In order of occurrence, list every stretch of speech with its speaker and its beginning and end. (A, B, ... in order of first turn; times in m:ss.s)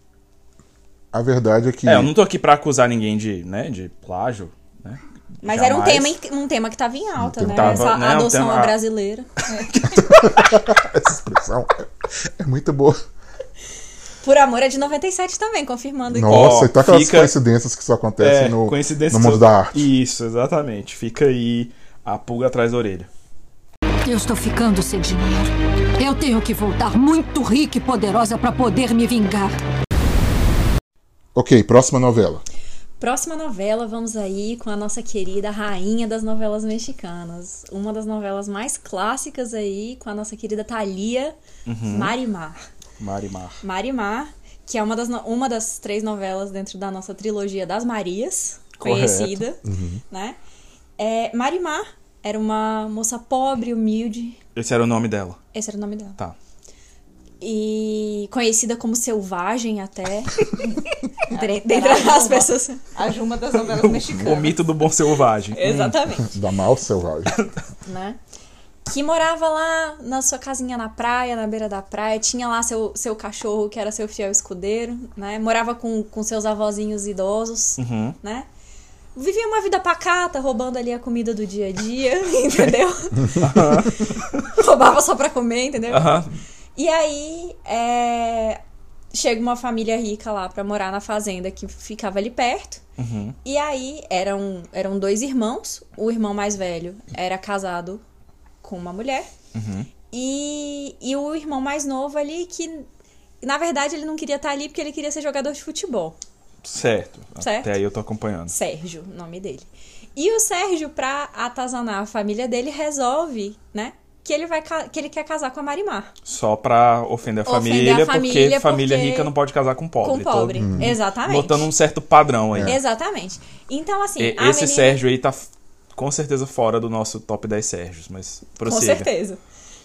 0:01.1-0:02.1 A
0:01.8-0:06.1 B
0:05.4-0:09.3 C
0:07.2-0:07.9 A
0:07.5-0:08.8 B
0:09.5-0:09.8 D
0:09.5-0:10.4 B
0:09.9-0:13.0 A
0:14.2-0:16.5 C
0:16.1-0:19.9 A
0:16.3-0:17.3 B
0:18.2-0:23.1 B
0:24.0-0:29.6 E
0:31.3-0:32.4 A
0:33.0-0:42.6 C
0:41.6-0:42.2 B
0:43.0-0:43.6 B
0:43.6-0:50.4 C
0:48.8-0:49.4 B
0:49.6-0:50.0 A
0:51.0-0:54.4 C
0:54.6-0:55.4 B
0:55.5-0:56.2 C
0:57.4-1:00.3 C
1:00.6-1:04.6 D
1:01.3-1:02.8 C
1:03.6-1:06.0 B
1:05.5-1:06.3 C
1:06.2-1:07.4 A
1:07.8-1:08.2 C
1:08.9-1:18.5 C
1:17.8-1:18.2 B
1:19.1-1:23.6 C
1:23.4-1:24.5 B
1:24.5-1:28.6 C
1:25.9-1:26.3 B
1:29.1-1:32.8 C
1:33.0-1:33.4 B
1:33.4-1:38.0 C
1:38.6-1:39.3 C
1:39.5-1:39.9 B
1:40.1-1:42.9 C
1:43.4-1:46.2 C
1:46.6-1:48.5 B
1:47.4-1:47.8 C
1:48.5-1:56.1 C
1:56.2-2:02.8 B
1:57.4-1:59.3 C
2:00.0-2:01.7 C
2:00.6-2:00.9 A
2:02.5-2:02.8 A
2:02.6-2:05.0 C
2:04.2-2:09.1 B
2:08.6-2:09.4 C